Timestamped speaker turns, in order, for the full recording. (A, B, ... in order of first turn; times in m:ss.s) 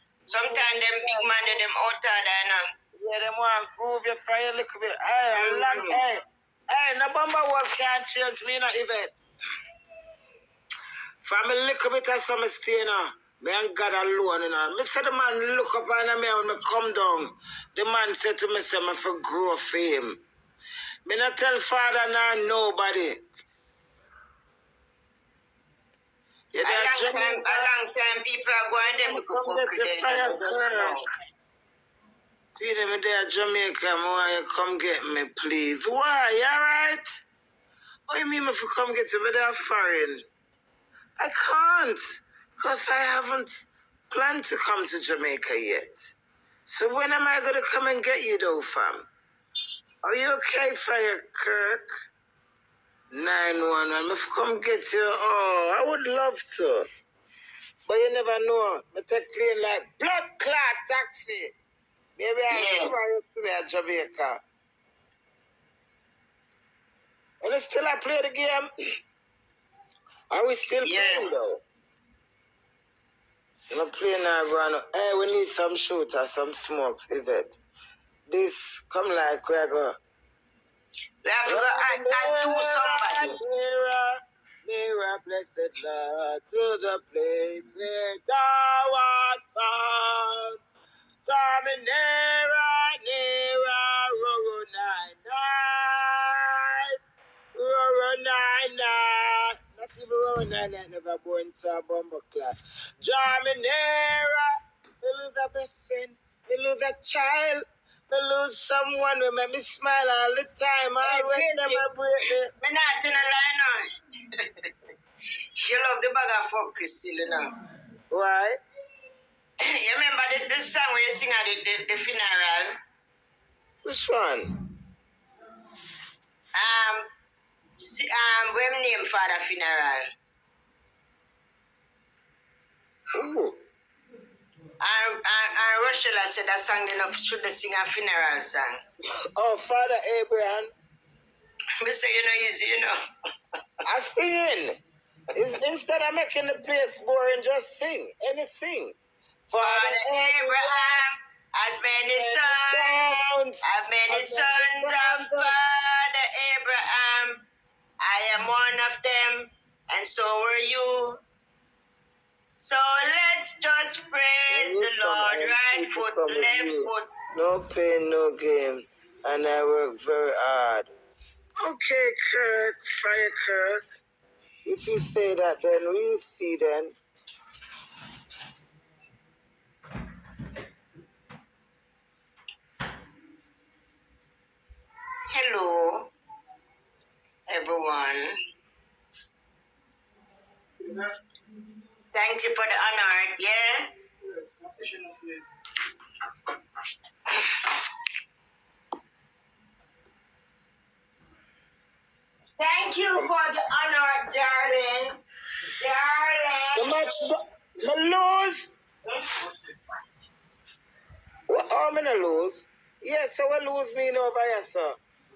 0:00.3-0:01.6 A
0:00.3-0:02.7 B
0:02.9-0:06.2 A
0:05.3-0:06.0 B
0:06.7-0:09.2 A
0:11.2-0:20.2 A
0:21.0-0:23.2 A
0:26.5-0:27.8 A
0:26.6-0:31.1 B
0:28.8-0:31.0 A
0:32.6-0:37.2 A
0:38.1-0:40.2 A
0:41.2-0:46.1 A
0:46.7-0:49.0 A
0:50.0-0:51.9 A
0:53.1-0:56.9 A
0:57.8-1:01.5 A
1:02.2-1:04.4 A
1:02.5-1:02.9 B
1:07.4-1:08.7 A
1:10.3-1:11.6 A
1:10.8-1:11.5 B
1:13.7-1:17.6 A
1:18.3-1:20.0 A
1:21.2-1:23.3 B
1:21.4-1:30.6 A
1:31.2-1:36.9 A
1:37.5-1:44.4 A
1:45.0-1:52.5 A
1:51.0-1:51.8 B
1:52.6-1:54.7 B
1:55.6-1:57.5 B
1:58.1-1:58.6 A
1:59.6-2:02.8 B
2:03.8-2:04.5 A
2:06.5-2:07.0 B
2:07.8-2:10.0 B
2:13.1-2:13.6 A
2:14.8-2:18.8 B
2:19.3-2:20.7 A
2:21.8-2:23.0 B
2:23.9-2:24.8 A
2:25.3-2:29.0 A
2:29.5-2:31.0 A
2:29.6-2:33.0 B
2:32.2-2:35.5 A
2:33.6-2:37.4 B
2:38.0-2:41.2 B
2:42.6-2:47.1 B
2:44.5-2:50.9 A
2:51.6-2:53.8 A
2:54.6-2:57.0 A
3:05.3-3:06.1 B
3:07.5-3:08.4 B
3:12.1-3:13.9 B
3:14.6-3:15.2 A
3:22.6-3:25.2 B
3:25.8-3:27.1 B
3:26.8-3:28.7 A
3:29.0-3:29.8 B
3:31.5-3:35.0 A